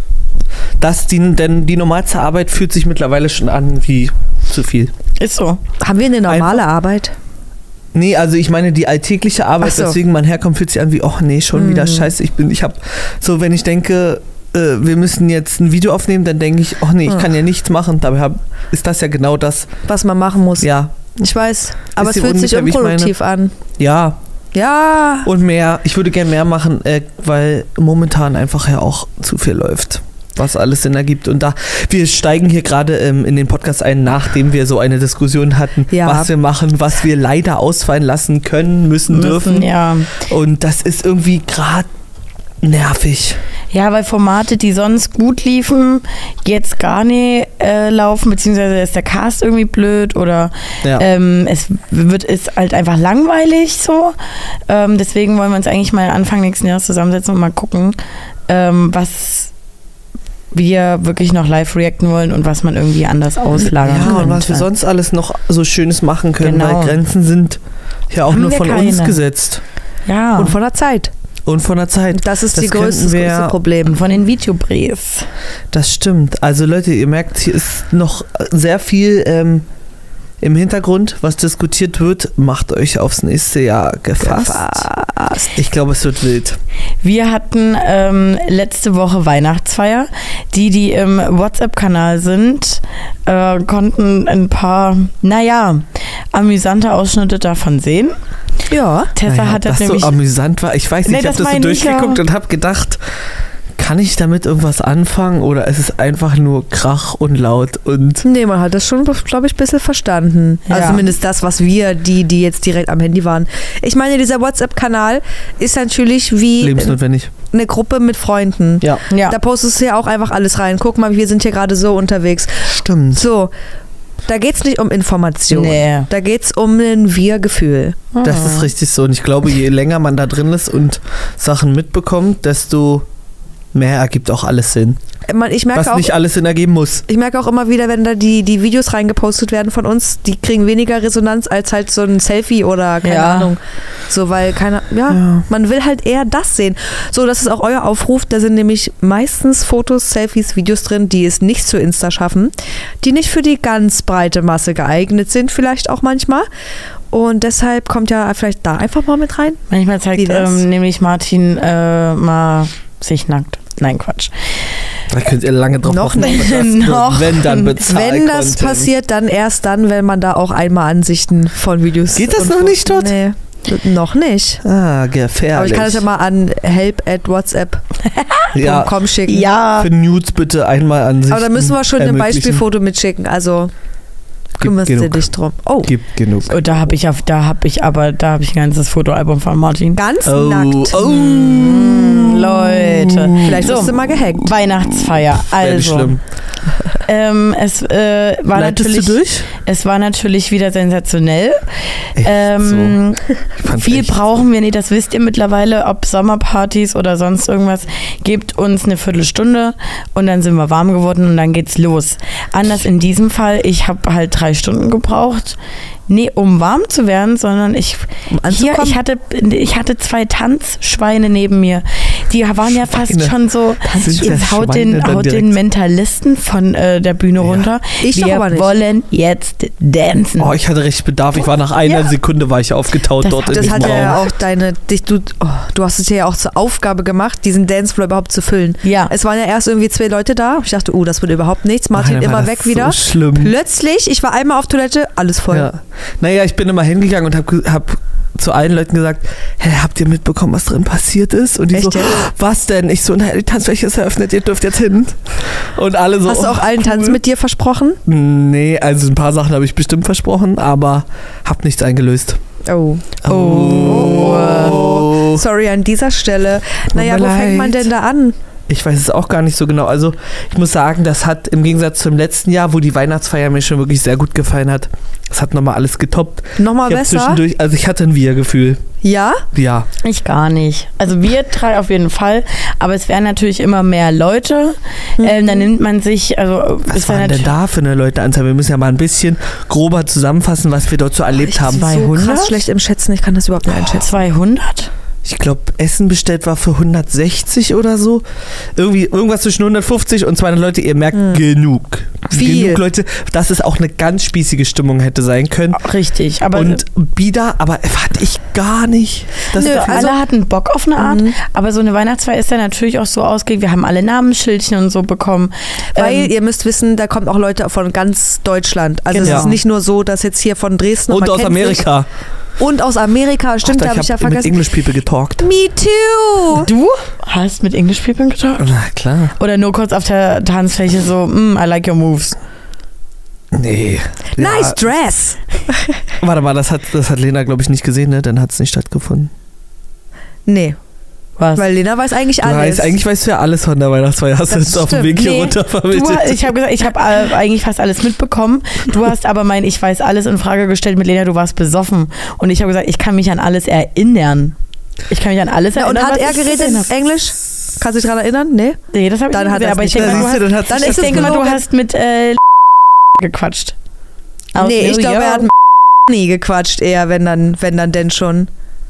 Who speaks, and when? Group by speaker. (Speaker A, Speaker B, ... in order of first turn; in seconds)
Speaker A: 0.8-4.9, 6.3-6.7, 7.9-19.7, 20.6-21.2, 22.0-23.1, 23.8-24.2, 25.2-41.9, 42.6-43.4, 63.8-67.6, 68.1-69.6, 71.5-73.6, 75.7-79.7, 80.4-84.9, 85.6-86.6, 99.3-103.0, 103.8-108.2, 116.6-117.3, 122.7-123.2, 128.2-133.1, 133.7-135.0, 135.8-137.1, 145.1-145.4, 165.1-168.9, 172.1-173.2, 174.6-176.1, 178.6-179.0, 179.8-182.6, 184.6-185.3, 185.8-186.7, 190.2-196.2, 198.5-199.5, 202.2-203.0, 203.6-204.2, 222.7-225.6, 230.4-234.3, 241.9-243.5, 245.5-257.2, 258.1-262.4, 263.2-265.4, 266.9-267.9, 268.7-278.8, 279.5-279.9, 286.9-292.0, 295.2-305.9, 306.5-310.1, 319.2-319.5, 321.1-322.1, 323.6-325.5, 328.6-329.3, 333.5-334.8, 336.2-339.3, 342.4-346.4, 359.9-361.5
Speaker B: 5.2-5.6, 39.1-40.1, 43.7-54.2, 54.7-58.0, 58.5-59.5, 60.5-64.7, 66.4-67.0, 68.3-69.2, 70.1-70.6, 73.8-75.3, 87.0-98.2, 99.2-100.2, 101.1-102.2, 110.7-111.0, 119.1-119.4, 125.5-126.1, 128.1-128.7, 143.0-143.5, 159.7-164.6, 166.2-167.7, 178.1-178.5, 179.3-179.9, 186.5-190.0, 191.3-196.2, 197.1-203.2, 203.7-215.6, 216.1-230.5, 231.8-232.1, 233.2-234.2, 238.8-239.1, 263.2-264.7, 280.0-287.5, 291.7-292.6, 293.8-294.9, 305.8-306.8, 309.5-316.3, 319.1-319.6, 326.6-328.7, 329.4-332.4, 341.4-341.6, 345.9-354.6, 355.1-356.9, 358.9-362.4, 363.2-363.8, 364.6-365.5
Speaker C: 5.8-7.1, 9.6-10.0, 11.5-12.1, 19.9-23.5, 24.5-25.3, 35.9-36.3, 63.9-64.4, 70.4-71.1, 72.1-74.0, 84.2-85.6, 98.7-99.1, 108.2-117.0, 117.5-123.5, 124.3-128.1, 135.3-136.1, 137.1-156.5, 157.1-159.6, 160.2-160.6, 165.8-166.5, 167.7-174.6, 175.5-177.8, 178.6-179.5, 181.3-183.7, 184.6-185.9, 190.0-191.7, 193.4-194.5, 218.3-219.0, 228.0-228.7, 233.5-245.7, 251.7-252.2, 256.3-258.0, 262.7-263.2, 263.9-268.4, 276.6-277.4, 279.0-279.4, 285.2-285.7, 291.4-294.1, 301.1-301.4, 302.3-302.8, 309.5-310.2, 311.0-311.4, 316.0-321.9, 322.6-324.8, 325.4-326.7, 334.4-336.0, 340.5-340.8, 341.6-342.9, 344.5-345.6, 355.8-361.6, 364.6-365.5, 366.1-368.5